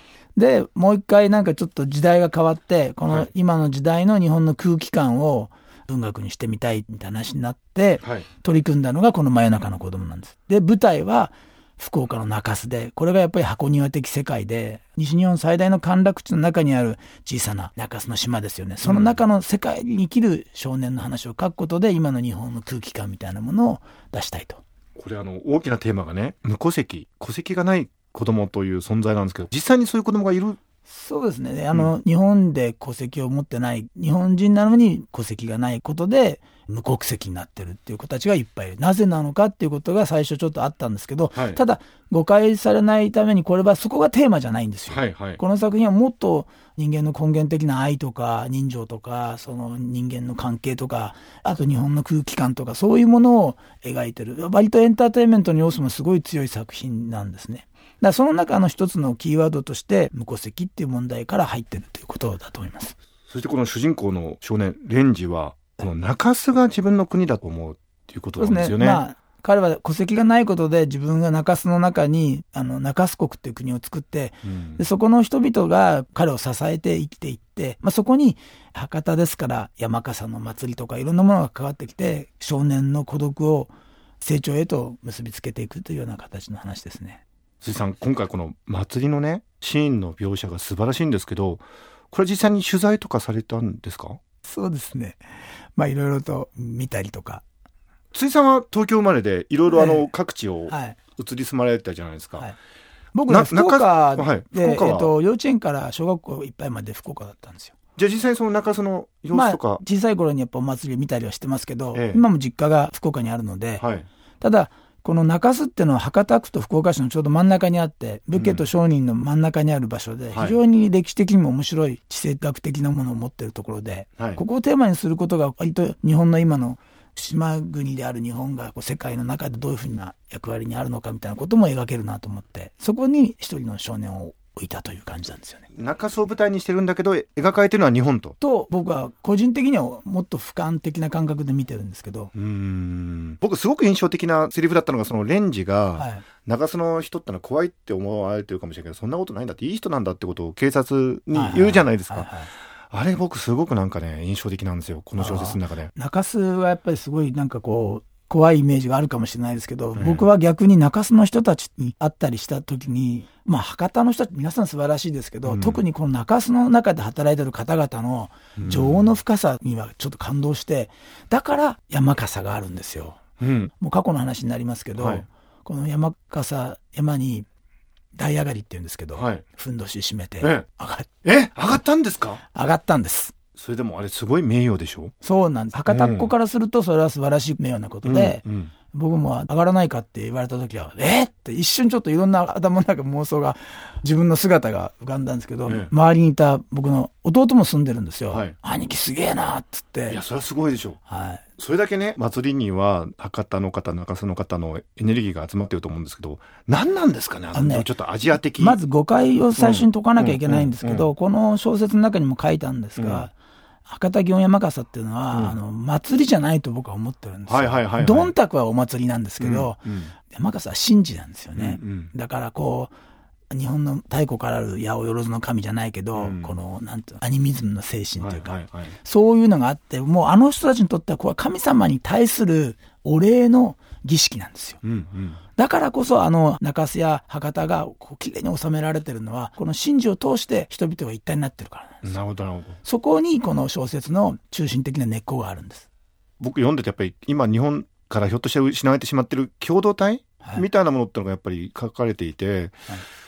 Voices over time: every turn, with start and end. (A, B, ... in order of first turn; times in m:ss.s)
0:00.4-0:24.6 A
0:08.0-0:08.3 B
0:18.8-0:19.2 B
0:25.0-0:30.6 B
0:30.9-1:02.9 A
0:41.3-0:41.6 B
0:44.9-0:45.4 B
1:03.3-1:09.0 B
1:08.4-1:27.2 A
1:14.4-1:14.8 B
1:27.6-1:34.2 B
1:34.4-1:35.2 A
1:35.8-1:37.4 A
1:38.1-1:42.5 B
1:39.7-1:40.1 A
1:40.7-1:41.0 A
1:43.1-1:47.8 A
1:43.3-1:45.1 B
1:48.0-1:49.8 B
1:49.3-1:53.9 A
1:51.9-1:52.2 B
1:53.8-1:54.1 B
1:54.4-2:15.7 A
1:58.3-1:58.7 B
2:00.3-2:00.6 B
2:15.7-2:18.4 B
2:18.4-2:22.3 A
2:22.4-2:32.3 B
2:26.0-2:26.2 A
2:31.3-2:32.5 A
2:32.9-2:35.9 B
2:35.2-2:53.2 A
2:40.0-2:40.3 B
2:45.5-2:45.8 B
2:48.6-2:49.1 B
2:53.4-2:53.7 B
2:53.8-2:57.5 A
2:55.0-2:55.2 B
2:58.2-3:01.1 A
2:59.2-2:59.4 B
3:00.4-3:00.7 B
3:01.2-3:02.4 B
3:02.5-3:03.4 A
3:03.6-3:05.1 B
3:05.2-3:20.2 A
3:05.9-3:06.3 B
3:08.0-3:08.7 B
3:15.6-3:15.9 B
3:18.3-3:18.6 B
3:20.1-3:21.0 B
3:21.1-3:21.4 A
3:21.6-3:28.8 B
3:27.5-3:33.3 A
3:29.6-3:31.1 B
3:33.0-3:33.3 B
3:33.9-3:42.9 A
3:35.3-3:35.6 B
3:37.5-3:38.3 B
3:39.4-3:40.1 B
3:41.6-3:42.1 B
3:43.5-3:54.8 A
3:46.2-3:46.5 B
3:48.2-3:49.0 B
3:54.8-3:55.4 B
3:55.6-4:02.2 A
4:02.0-4:02.8 B
4:02.8-4:05.9 A
4:06.4-4:12.8 B